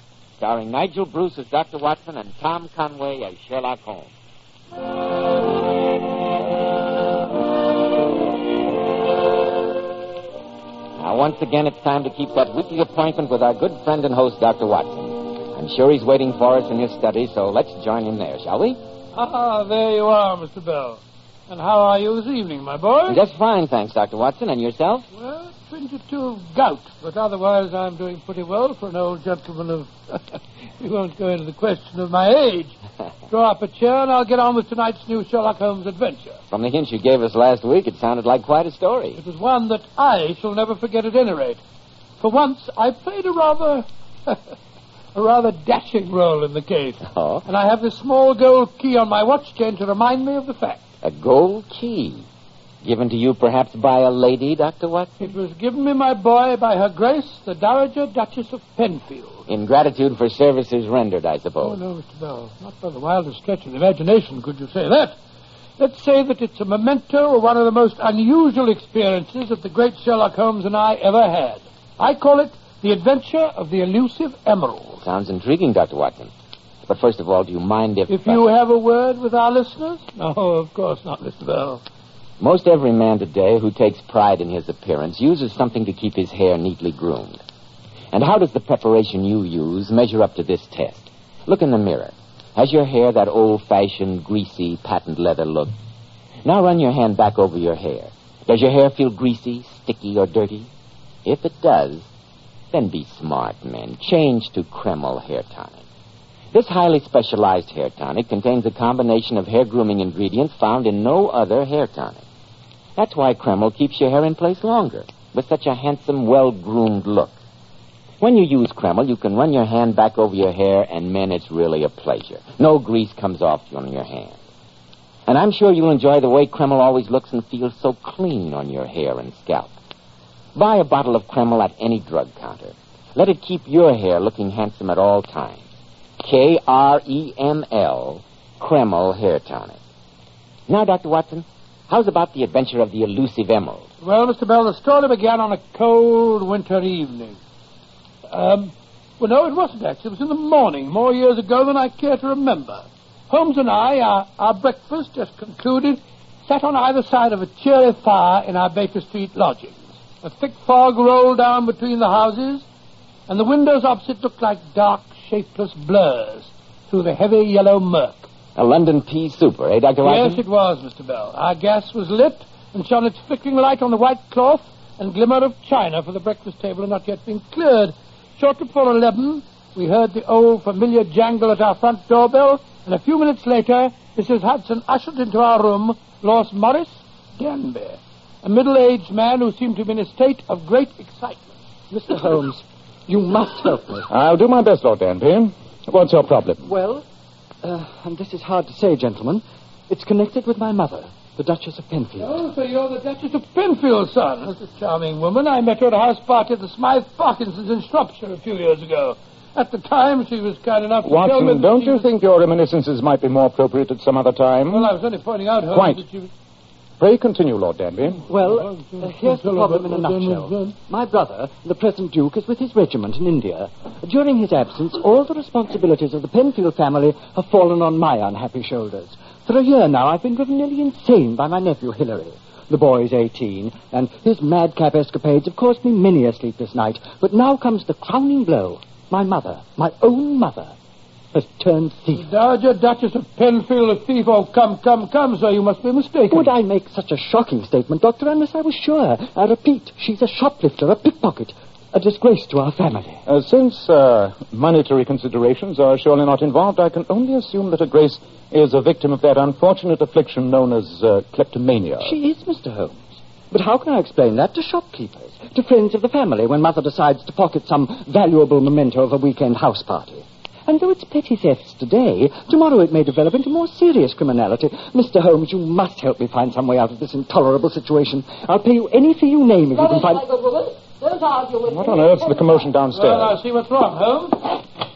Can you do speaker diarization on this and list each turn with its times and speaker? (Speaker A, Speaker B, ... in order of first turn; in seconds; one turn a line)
Speaker A: 0.4-4.1
Speaker A: 11.0-18.8
Speaker B: 19.1-23.2
Speaker A: 23.1-25.1
Speaker B: 25.1-32.8
Speaker B: 33.3-36.4
Speaker A: 36.5-39.2
Speaker B: 39.2-41.6
Speaker B: 42.2-44.4
Speaker B: 45.1-50.8
Speaker A: 47.1-47.5
Speaker A: 51.0-52.2
Speaker A: 52.8-55.3
Speaker B: 55.2-59.4
Speaker A: 59.5-61.8
Speaker B: 61.6-65.2
Speaker B: 65.8-75.0
Speaker A: 75.0-76.3
Speaker A: 76.9-78.4
Speaker B: 78.1-81.8
Speaker A: 82.4-87.4
Speaker A: 88.1-95.7
Speaker A: 96.5-100.7
Speaker A: 101.2-102.1
Speaker A: 102.7-105.8
Speaker A: 106.5-112.2
Speaker A: 113.0-117.4
Speaker A: 118.2-124.4
Speaker A: 125.3-129.7
Speaker A: 130.6-135.6
Speaker A: 136.2-139.8
Speaker A: 140.7-143.9
Speaker B: 144.0-147.4
Speaker B: 148.3-162.7
Speaker B: 163.3-168.3
Speaker A: 168.6-170.4
Speaker B: 170.0-191.5
Speaker C: 191.9-194.1
Speaker D: 194.1-196.7
Speaker C: 196.6-197.1
Speaker C: 197.6-202.4
Speaker B: 202.2-212.1
Speaker D: 211.0-214.9
Speaker B: 214.7-216.3
Speaker D: 215.7-216.0
Speaker D: 217.0-218.3
Speaker C: 218.3-240.8
Speaker B: 218.5-220.7
Speaker C: 241.3-242.3
Speaker B: 242.1-246.5
Speaker C: 246.3-253.2
Speaker D: 253.3-262.1
Speaker C: 262.0-280.2
Speaker E: 279.7-282.7
Speaker D: 281.7-283.4
Speaker B: 282.9-284.4